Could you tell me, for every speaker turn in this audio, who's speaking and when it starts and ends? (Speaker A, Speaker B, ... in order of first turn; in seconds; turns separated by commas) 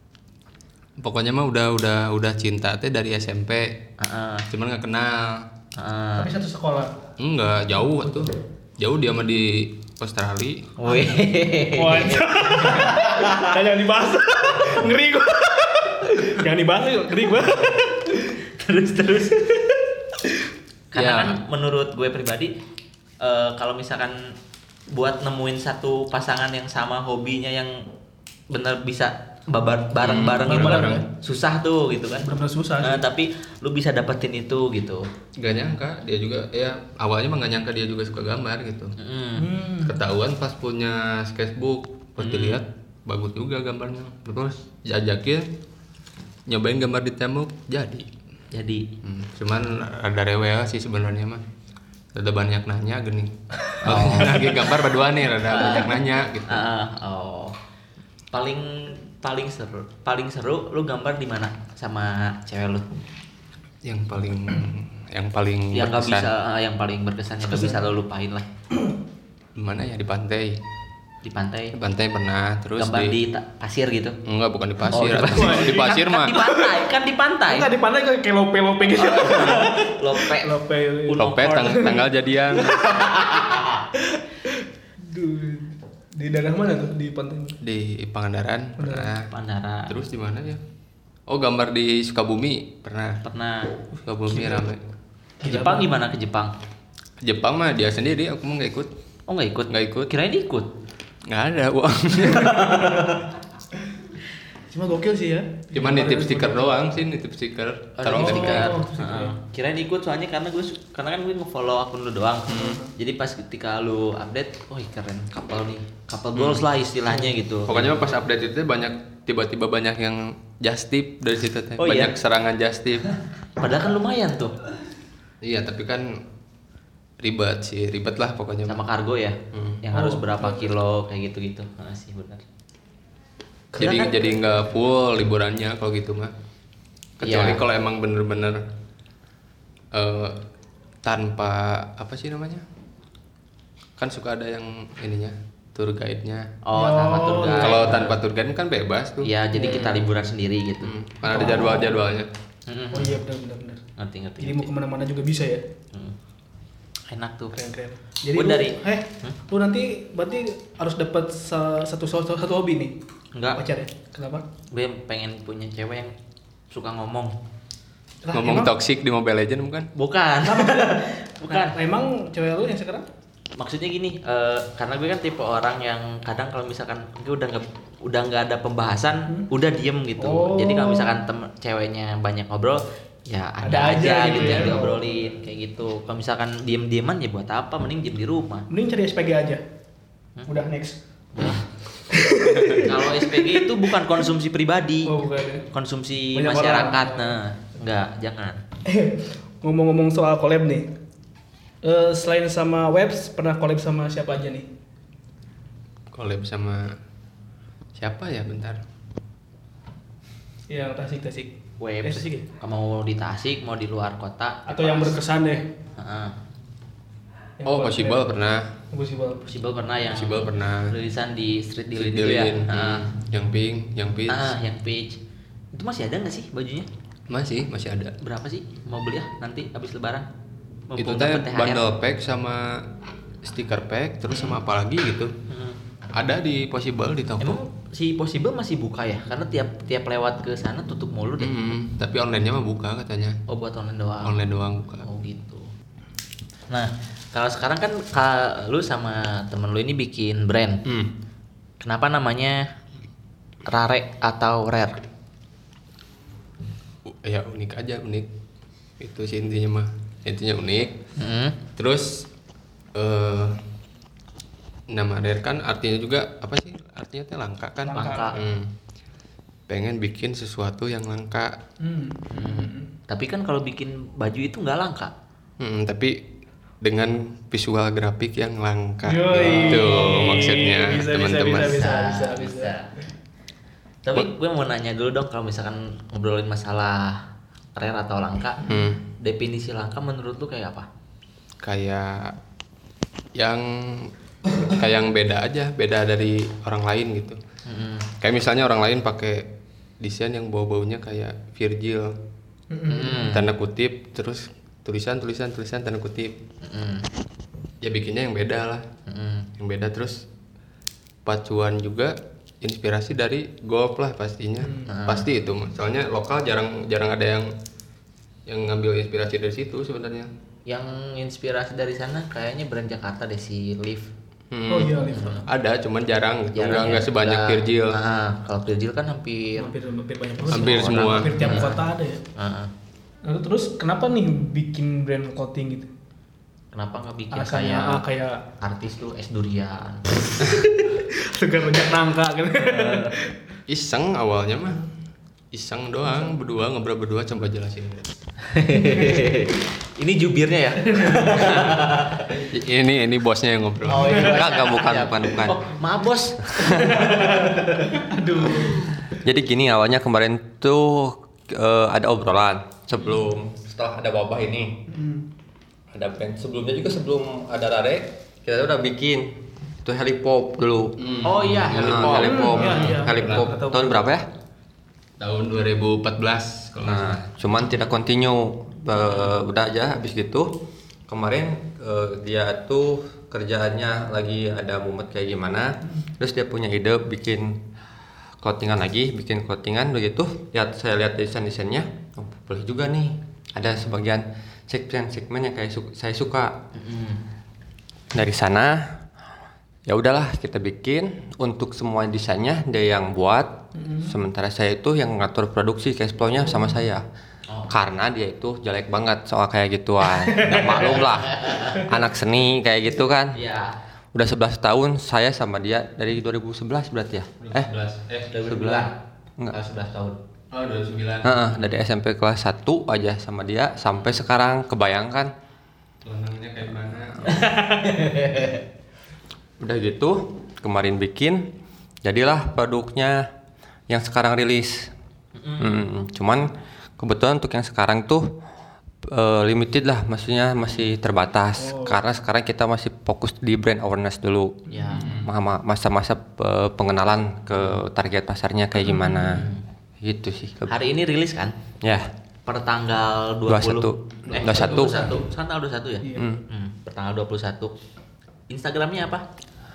Speaker A: 1.0-3.8, Speaker B: 4.0-4.5, Speaker A: 4.5-5.5, Speaker B: 5.8-6.3, Speaker C: 6.2-6.9, Speaker A: 7.2-10.7, Speaker B: 10.8-13.6, Speaker C: 11.7-17.9, Speaker B: 17.6-20.0, Speaker B: 20.9-22.5, Speaker A: 20.9-21.4, Speaker B: 23.2-24.4, Speaker B: 24.9-27.8, Speaker B: 28.5-32.3, Speaker A: 30.0-31.1, Speaker C: 30.5-31.0, Speaker C: 32.2-33.0, Speaker B: 32.8-35.1, Speaker A: 35.4-39.0, Speaker B: 39.0-39.5, Speaker C: 39.4-40.0, Speaker A: 39.8-45.5, Speaker B: 42.2-42.6, Speaker A: 46.5-48.1, Speaker B: 48.5-48.9, Speaker A: 49.0-51.4, Speaker A: 52.1-56.7, Speaker B: 53.8-54.6, Speaker B: 55.5-57.6, Speaker B: 58.3-62.9, Speaker A: 63.8-66.3, Speaker B: 65.7-68.5, Speaker C: 67.5-67.8, Speaker A: 69.6-70.6, Speaker B: 71.2-71.7, Speaker A: 71.7-73.2, Speaker B: 72.8-74.2, Speaker A: 74.3-76.4, Speaker B: 74.9-77.7, Speaker C: 75.3-76.7, Speaker C: 77.5-82.0, Speaker B: 79.0-80.5, Speaker B: 81.1-82.0, Speaker A: 81.2-82.8, Speaker C: 82.5-83.3, Speaker B: 82.7-83.8, Speaker C: 84.0-87.6, Speaker A: 87.6-89.3, Speaker C: 88.8-89.1, Speaker B: 89.3-89.9, Speaker A: 89.9-90.6, Speaker A: 91.3-93.2, Speaker B: 93.2-93.7, Speaker A: 94.0-94.8, Speaker C: 94.3-94.6, Speaker C: 95.4-95.9, Speaker B: 95.4-96.5, Speaker A: 97.2-98.9, Speaker B: 99.3-100.7, Speaker A: 99.7-100.1, Speaker A: 101.3-103.0, Speaker B: 102.3-103.2, Speaker C: 104.7-106.8, Speaker A: 105.7-108.8, Speaker B: 108.0-118.0, Speaker C: 108.1-109.4, Speaker C: 112.5-112.9, Speaker A: 116.3-116.7, Speaker A: 117.7-123.1, Speaker B: 121.8-122.1, Speaker B: 123.6-124.6, Speaker A: 125.4-126.2, Speaker A: 127.2-128.8, Speaker B: 128.7-132.4, Speaker A: 129.5-129.8, Speaker C: 129.9-130.7, Speaker A: 133.7-136.3, Speaker B: 133.8-134.2, Speaker A: 137.2-138.6, Speaker B: 137.2-137.6, Speaker A: 139.9-140.4, Speaker A: 141.0-142.7, Speaker A: 144.0-146.5, Speaker B: 146.7-148.2, Speaker C: 146.8-148.0, Speaker A: 147.6-149.3, Speaker B: 149.2-151.7, Speaker C: 149.6-150.0, Speaker A: 150.8-152.3, Speaker C: 151.2-152.0, Speaker B: 152.7-153.2, Speaker C: 152.9-153.8, Speaker B: 154.0-154.7, Speaker C: 154.4-155.6, Speaker B: 157.1-157.6, Speaker C: 157.5-162.9, Speaker B: 158.3-159.4, Speaker B: 163.3-163.6, Speaker C: 163.6-164.5, Speaker B: 164.7-166.1, Speaker B: 166.7-167.3, Speaker C: 168.2-168.7, Speaker A: 168.3-169.9, Speaker B: 170.0-171.8, Speaker C: 170.4-173.1, Speaker B: 173.6-188.7, Speaker C: 180.2-181.1, Speaker C: 183.6-185.3, Speaker C: 188.7-189.6, Speaker C: 190.5-191.5, Speaker B: 191.3-191.7, Speaker C: 192.1-194.2, Speaker B: 192.7-195.2, Speaker C: 195.1-195.7, Speaker B: 195.7-198.6, Speaker C: 196.3-197.4, Speaker C: 198.9-200.9, Speaker C: 201.8-204.7, Speaker A: 206.1-207.0, Speaker A: 208.0-208.8, Speaker C: 210.7-212.5, Speaker B: 211.8-215.2, Speaker C: 214.7-215.7, Speaker B: 216.0-216.4, Speaker C: 217.6-218.3, Speaker A: 217.7-218.7, Speaker C: 218.9-219.5, Speaker B: 219.5-223.1, Speaker A: 220.1-220.9, Speaker A: 221.9-224.5, Speaker B: 224.3-225.2, Speaker B: 225.7-226.9, Speaker A: 227.3-228.2, Speaker B: 228.2-230.3, Speaker B: 230.9-231.8, Speaker A: 231.0-232.9, Speaker A: 233.4-235.3, Speaker B: 235.5-235.8, Speaker A: 236.1-237.6, Speaker B: 237.4-241.7, Speaker A: 241.4-243.4, Speaker B: 243.5-244.4, Speaker A: 244.2-245.1, Speaker B: 245.0-245.7, Speaker B: 246.7-250.8, Speaker B: 251.8-252.7, Speaker B: 253.7-255.0, Speaker A: 257.1-258.3, Speaker A: 259.0-261.0, Speaker B: 261.2-261.6, Speaker A: 261.8-262.3, Speaker A: 262.9-263.6, Speaker A: 264.9-268.7, Speaker C: 267.9-268.4, Speaker B: 267.9-268.4, Speaker A: 269.7-271.6, Speaker C: 271.8-272.9, Speaker B: 272.3-275.1, Speaker A: 275.6-276.3, Speaker A: 276.8-281.9, Speaker C: 279.0-282.7, Speaker B: 279.4-280.6, Speaker B: 281.6-282.9, Speaker B: 284.0-288.6, Speaker A: 288.6-289.0, Speaker B: 289.2-290.9, Speaker A: 291.6-292.4, Speaker A: 293.4-297.4, Speaker B: 297.7-298.1, Speaker A: 298.2-302.2, Speaker C: 302.7-303.3, Speaker B: 302.9-303.5, Speaker A: 303.2-306.4, Speaker B: 306.6-307.1, Speaker A: 307.8-308.9, Speaker B: 309.1-309.5, Speaker A: 309.6-310.2, Speaker A: 311.2-317.5, Speaker C: 314.6-314.9, Speaker B: 314.9-315.3, Speaker A: 318.5-320.3, Speaker B: 320.7-324.1, Speaker A: 324.5-328.0, Speaker C: 324.7-325.4, Speaker B: 325.1-325.5, Speaker B: 326.5-329.7, Speaker C: 329.6-332.2, Speaker B: 330.4-331.8, Speaker A: 330.5-331.7, Speaker B: 332.4-332.7, Speaker C: 333.3-335.9, Speaker B: 336.7-338.0, Speaker C: 337.3-338.4, Speaker B: 338.6-340.0, Speaker C: 340.4-343.3, Speaker B: 342.6-343.1, Speaker A: 343.7-344.8, Speaker A: 345.5-348.1, Speaker B: 348.4-352.4, Speaker C: 348.8-349.3, Speaker C: 350.9-351.8, Speaker A: 352.5-354.4, Speaker B: 353.9-358.0, Speaker C: 354.0-354.3, Speaker D: 354.2-355.6, Speaker D: 356.6-357.1, Speaker C: 356.6-358.9, Speaker D: 359.1-364.8, Speaker C: 364.9-365.2, Speaker D: 365.9-374.3, Speaker A: 371.0-373.5, Speaker B: 371.2-372.6, Speaker C: 372.2-373.9, Speaker A: 375.2-377.2, Speaker D: 376.8-380.5, Speaker D: 381.1-387.6, Speaker D: 388.4-396.6, Speaker B: 396.7-397.2, Speaker D: 398.1-399.0, Speaker D: 399.9-407.1, Speaker C: 403.8-404.1, Speaker B: 407.5-407.7, Speaker D: 407.7-413.4, Speaker C: 410.2-411.0, Speaker B: 410.7-411.8, Speaker B: 413.3-413.8, Speaker D: 414.1-417.7, Speaker A: 417.4-418.4, Speaker B: 418.3-419.0, Speaker D: 418.5-419.6, Speaker B: 419.5-420.2, Speaker A: 420.5-421.6, Speaker D: 421.2-425.3, Speaker A: 426.0-427.4, Speaker B: 427.3-428.6, Speaker D: 429.6-431.5, Speaker D: 432.0-433.3, Speaker D: 433.9-434.9, Speaker B: 435.4-435.9, Speaker D: 435.6-438.4, Speaker D: 439.1-449.5, Speaker C: 441.6-442.0, Speaker C: 444.7-445.0, Speaker B: 444.7-445.2, Speaker A: 445.0-445.3, Speaker C: 448.9-449.4, Speaker B: 449.2-449.6, Speaker D: 450.0-450.8, Speaker B: 450.7-451.6, Speaker D: 451.8-452.1, Speaker B: 452.5-457.7, Speaker D: 453.5-455.1, Speaker C: 454.3-455.2, Speaker C: 456.0-456.3, Speaker D: 456.1-456.4, Speaker B: 458.5-459.2